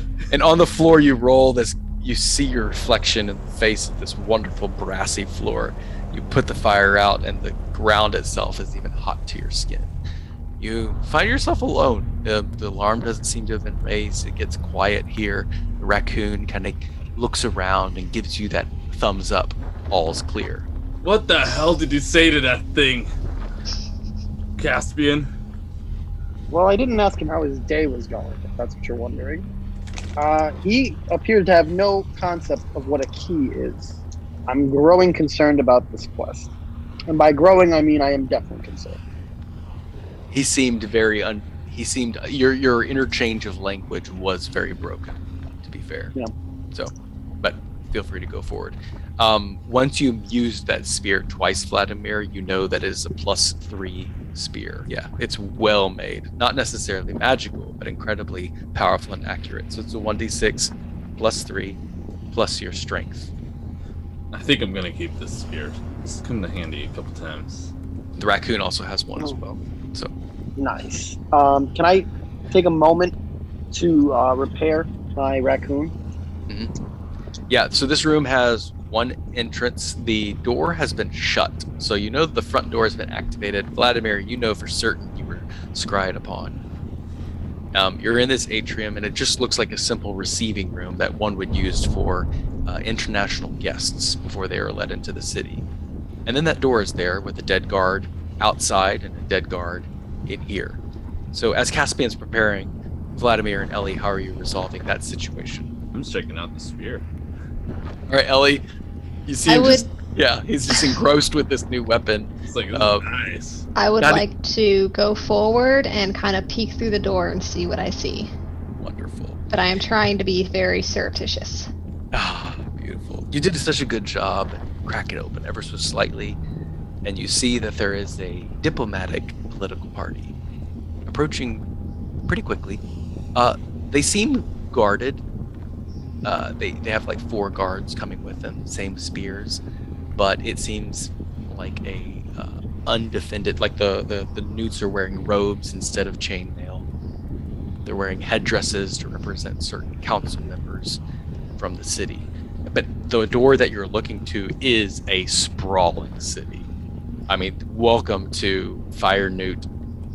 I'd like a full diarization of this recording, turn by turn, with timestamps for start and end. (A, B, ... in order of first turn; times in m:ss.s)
0:00.3-0:09.9 A
0:10.6-0:20.7 A
0:21.0-0:23.1 B
0:24.6-0:25.3 B
0:26.5-0:29.5 C
0:30.2-0:36.5 C
0:37.1-0:39.0 C
0:40.3-0:46.1 A
0:46.7-1:01.8 A
1:02.3-1:03.3 A
1:04.3-1:07.7 B
1:08.2-1:09.4 A
1:09.2-1:09.6 C
1:10.6-1:13.1 C
1:13.7-1:15.9 C
1:17.5-1:26.6 A
1:27.7-1:35.6 A
1:36.2-1:40.8 A
1:41.3-1:45.7 A
1:45.9-1:47.0 B
1:48.1-1:48.6 A
1:49.2-1:53.0 A
1:49.5-1:49.9 D
1:52.5-1:53.6 B
1:53.8-1:58.3 D
1:58.8-1:59.4 A
1:59.5-2:01.7 D
2:02.1-2:06.4 A
2:07.0-2:10.3 A
2:11.0-2:11.6 A
2:12.3-2:12.8 A
2:13.3-2:15.2 A
2:16.2-2:19.6 A
2:20.2-2:26.8 A
2:27.8-2:31.0 A
2:31.6-2:36.6 A
2:37.3-2:39.7 A